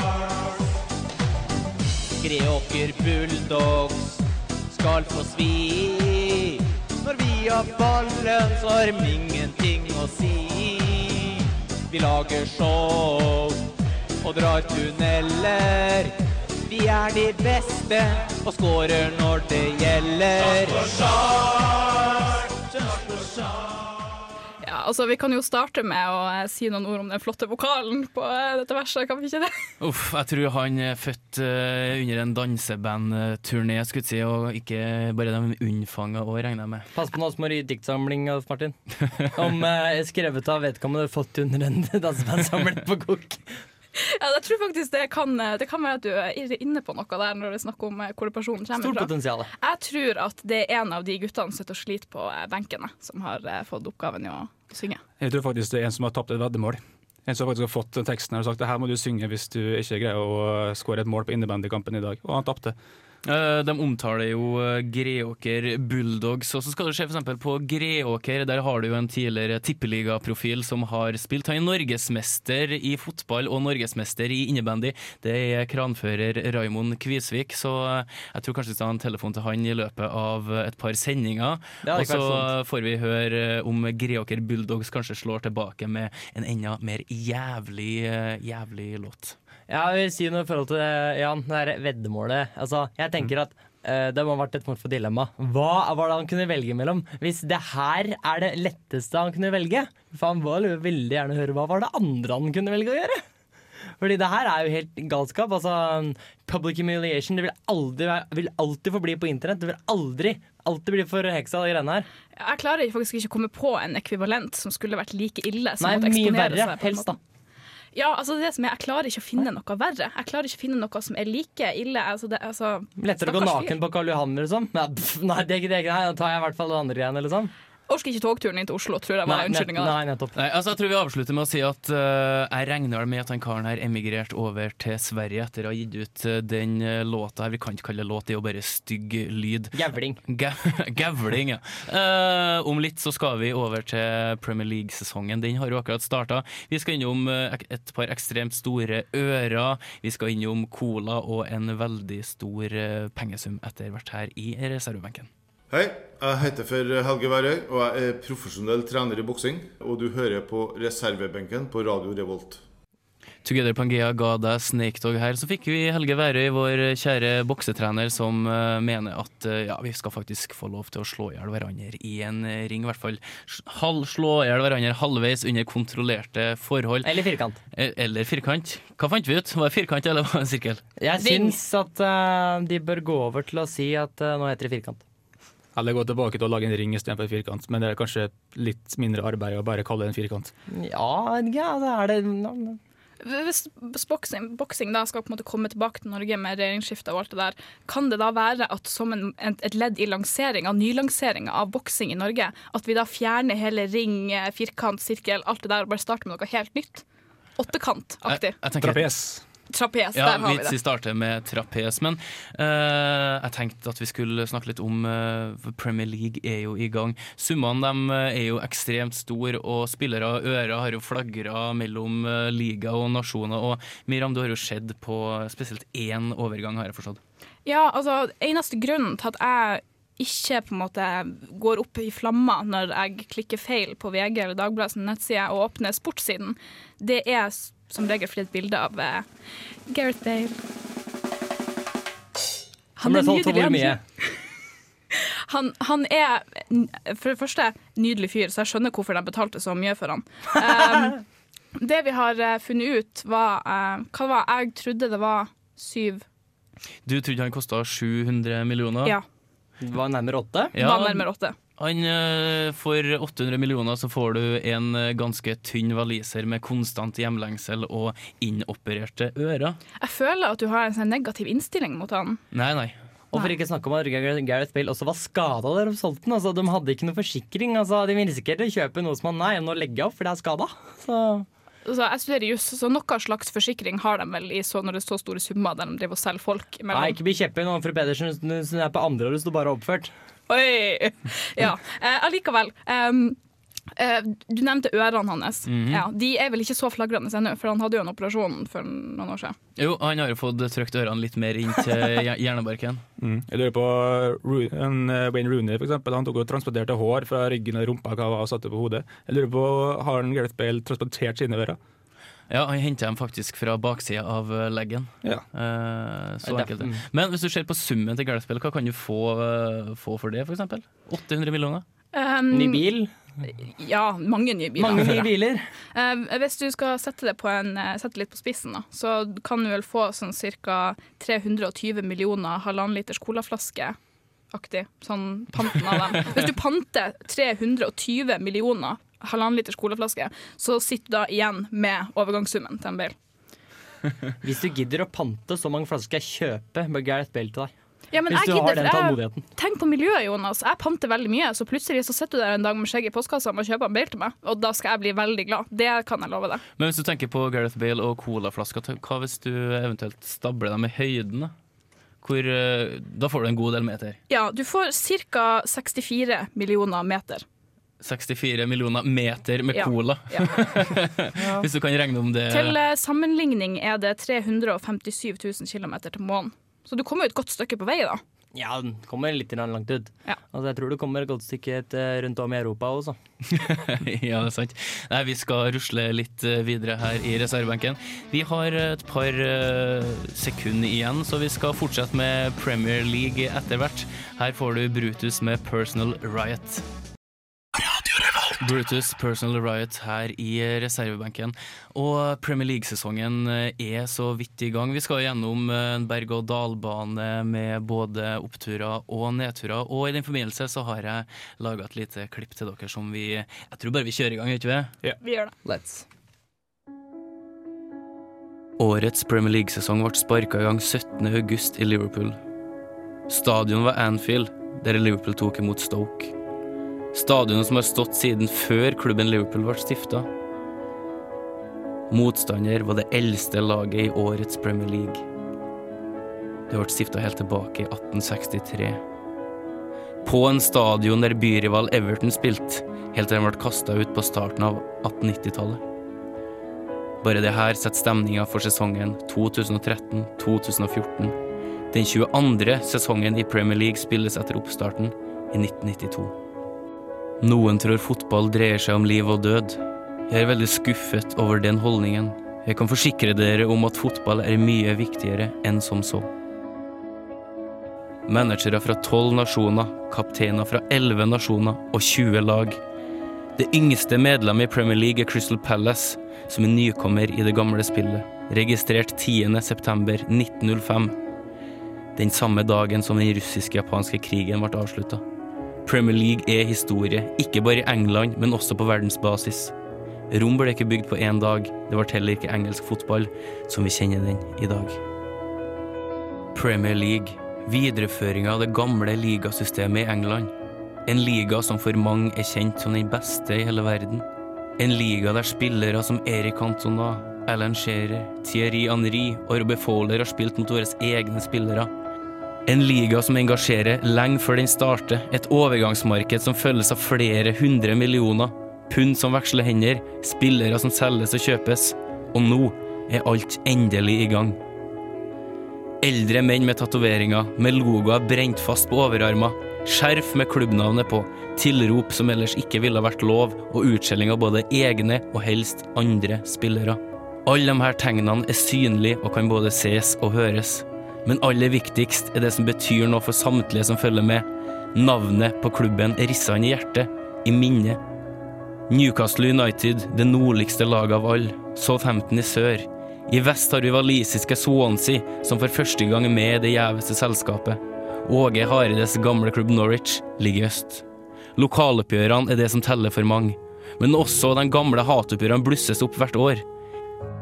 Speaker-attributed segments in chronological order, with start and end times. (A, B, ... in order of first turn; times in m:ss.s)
0:02.2-0:13.6 A
0:14.2-0:21.0 A
0:24.6-0:29.5 B
0:29.8-0:36.9 C
0:36.9-0:43.6 D
0:44.0-0:55.0 B
0:48.8-0:49.5 D
0:55.2-1:02.8 E
1:03.2-1:29.4 C
1:21.8-1:22.5 D
1:29.7-1:43.2 D
1:44.0-1:52.1 D
1:52.4-1:57.1 B
1:55.8-1:57.2 D
1:57.9-2:03.8 B
2:03.0-2:07.5 D
2:07.9-2:10.0 B
2:09.2-2:10.3 D
2:10.4-2:35.3 C
2:19.7-2:20.2 D
2:35.7-2:42.6 F
2:43.4-2:57.1 C
2:57.0-2:57.6 D
2:57.7-3:00.8 C
3:01.0-3:05.0 D
3:01.2-3:01.6 B
3:05.8-3:10.5 E
3:10.7-3:12.8 D
3:13.2-3:27.0 B
3:27.6-3:28.6 B
3:28.3-3:29.0 C
3:28.8-3:29.4 E
3:29.7-3:30.8 B
3:30.2-3:47.2 C
3:47.6-3:59.3 B
3:59.9-4:00.6 B
4:03.0-4:04.0 B
4:03.0-4:04.0 D
4:05.1-4:11.2 B
4:11.8-4:16.2 B
4:17.1-4:19.2 C
4:19.8-4:20.8 D
4:20.8-4:29.8 C
4:20.8-4:21.6 B
4:30.0-4:32.4 B
4:32.5-4:33.0 C
4:33.3-4:41.5 D
4:41.8-4:47.2 B
4:46.9-4:50.1 D
4:50.5-4:53.4 B
4:54.0-4:59.6 B
4:55.7-4:56.1 C
4:59.8-5:03.0 C
5:03.2-5:11.8 E
5:12.5-5:21.8 C
5:16.4-5:17.0 D
5:22.1-5:22.8 B
5:22.5-5:23.1 D
5:23.5-5:25.3 B
5:24.8-5:25.7 D
5:26.0-5:34.0 B
5:34.5-5:43.2 B
5:44.4-5:47.7 D
5:48.1-5:56.6 B
5:48.3-5:49.4 D
5:56.8-6:01.5 C
6:02.2-6:04.2 C
6:04.3-6:07.4 B
6:08.0-6:12.8 C
6:09.7-6:10.8 B
6:11.4-6:11.6 D
6:12.5-6:18.2 B
6:18.6-6:23.2 D
6:23.5-6:36.9 C
6:38.6-6:55.0 C
6:55.2-6:55.6 B
6:55.6-6:56.1 D
6:58.8-7:02.4 C
7:03.3-7:06.3 C
7:07.1-7:10.3 C
7:12.1-7:15.2 C
7:16.7-7:19.0 C
7:20.2-7:25.8 C
7:27.2-7:31.4 C
7:31.9-7:36.3 C
7:37.4-7:46.3 C
7:48.3-7:52.8 C
7:53.6-8:01.2 C
8:02.2-8:05.2 C
8:05.8-8:09.7 C
8:10.3-8:15.0 C
8:16.5-8:20.5 C
8:21.1-8:24.3 C
8:24.8-8:31.9 C
8:32.7-8:44.6 C
8:46.0-9:08.0 C
9:08.9-9:21.0 C
9:21.6-9:26.6 C